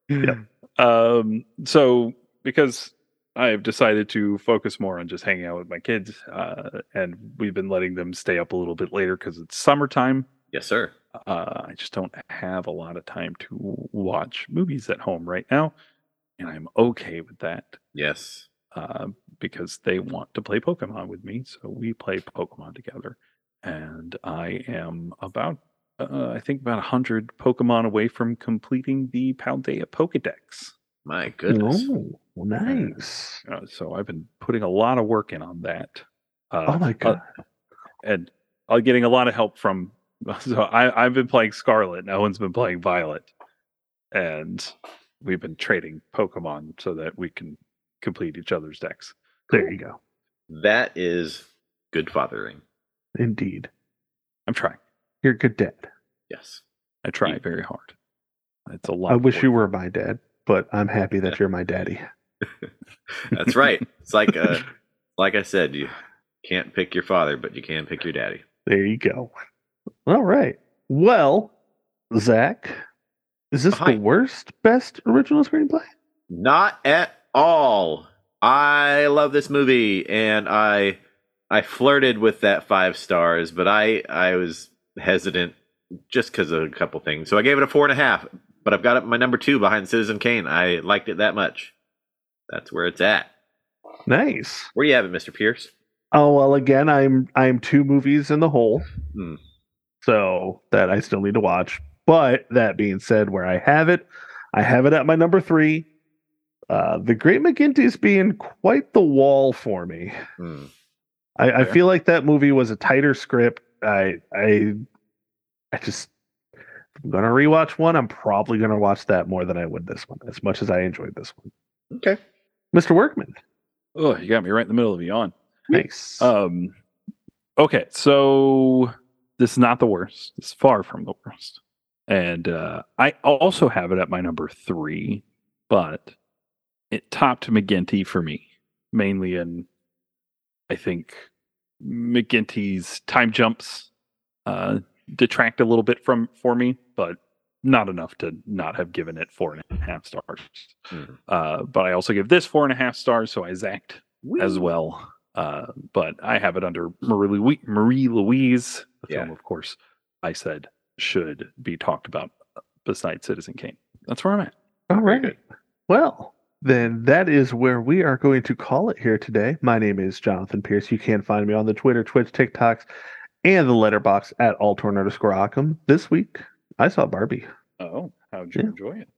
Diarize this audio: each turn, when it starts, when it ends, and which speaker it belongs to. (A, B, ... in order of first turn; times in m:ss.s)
0:00.1-0:10.3 A
0:10.5-0:10.9 B
0:11.2-0:15.7 A
0:16.4-0:17.8 A
0:17.9-0:18.5 B
0:18.7-0:30.7 A
0:31.0-0:31.9 B
0:31.5-0:33.4 C
0:33.4-0:37.2 A
0:36.7-0:37.2 C
0:38.0-0:43.3 A
0:44.1-0:49.1 A
0:49.5-0:50.0 C
0:50.5-0:52.6 B
0:53.2-0:53.7 C
0:54.5-0:54.8 A
0:55.2-0:55.9 C
0:56.3-0:56.6 B
0:57.0-0:57.9 A
0:58.7-0:59.5 A
0:59.1-1:02.0 C
1:02.4-1:04.6 B
1:05.2-1:08.4 B
1:08.6-1:09.3 C
1:10.0-1:11.5 C
1:12.1-1:12.8 C
1:13.5-1:15.9 C
1:13.7-1:14.0 B
1:16.3-1:21.0 B
1:21.5-1:25.6 B
1:26.1-1:31.7 B
1:32.5-1:33.3 B
1:34.1-1:34.7 C
1:34.7-1:35.7 B
1:36.1-1:38.9 C
1:39.1-1:39.4 B
1:40.0-1:45.9 C
1:46.7-1:50.2 C
1:50.4-1:50.7 B
1:51.4-1:54.8 C
1:55.7-1:56.1 C
1:57.0-2:01.5 C
2:01.9-2:02.2 B
2:02.7-2:03.3 C
2:04.0-2:06.7 A
2:05.7-2:06.3 C
2:07.6-2:16.1 A
2:16.9-2:19.7 A
2:20.7-2:21.3 A
2:21.8-2:23.9 A
2:24.4-2:44.5 A
2:34.2-2:34.7 B
2:44.9-2:52.9 C
2:45.0-2:45.4 B
2:53.4-2:57.5 C
2:57.8-2:59.1 A